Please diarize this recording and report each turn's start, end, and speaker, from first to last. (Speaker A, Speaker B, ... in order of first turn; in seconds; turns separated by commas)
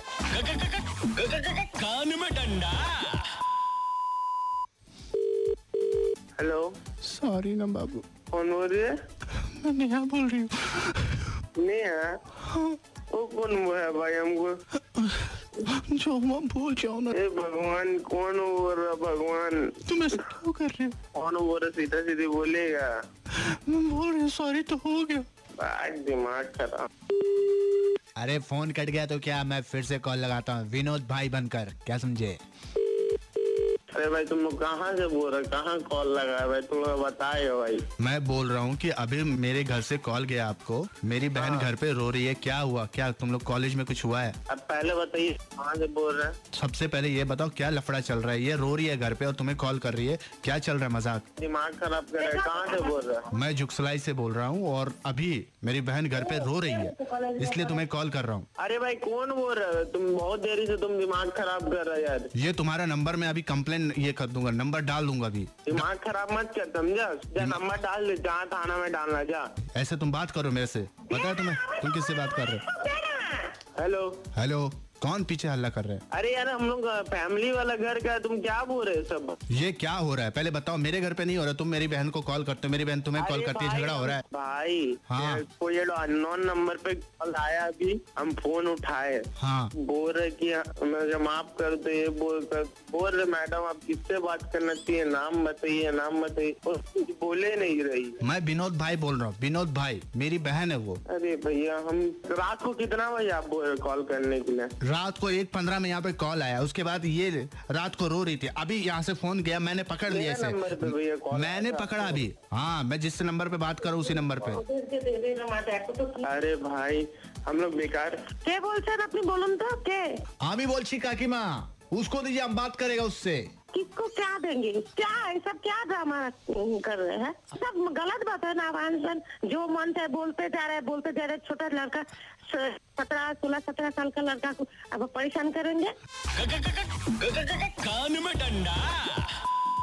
Speaker A: 0.3-3.3, Speaker B: 6.4-6.7, Speaker C: 7.0-8.0, Speaker B: 8.3-8.9, Speaker C: 9.4-11.1, Speaker B: 11.6-12.2, Speaker C: 12.4-12.8, Speaker B: 13.1-14.6, Speaker C: 14.9-17.1, Speaker B: 17.1-19.8, Speaker C: 19.9-20.9, Speaker B: 21.1-22.9, Speaker C: 23.3-25.2, Speaker B: 25.6-26.9, Speaker D: 28.2-32.4, Speaker B: 33.9-37.9, Speaker C: 38.0-44.4, Speaker B: 41.3-41.7, Speaker B: 44.5-46.4, Speaker C: 46.5-51.2, Speaker B: 51.4-53.3, Speaker E: 52.2-53.0, Speaker C: 53.3-58.5, Speaker E: 56.2-57.8, Speaker B: 58.6-62.3, Speaker C: 62.4-65.8, Speaker B: 65.7-69.5, Speaker C: 69.7-72.6, Speaker E: 71.0-73.6, Speaker B: 73.8-74.2, Speaker C: 74.3-76.0, Speaker B: 76.1-79.3, Speaker C: 79.5-84.2, Speaker B: 83.2-98.2, Speaker C: 85.1-85.4, Speaker C: 89.4-89.7, Speaker C: 98.2-101.0, Speaker B: 101.1-104.7, Speaker C: 104.8-114.6, Speaker B: 110.1-112.2, Speaker E: 114.5-116.2, Speaker B: 116.2-118.3, Speaker E: 118.4-120.2, Speaker D: 120.4-123.4, Speaker C: 121.9-123.0, Speaker E: 123.7-135.9, Speaker A: 136.3-139.3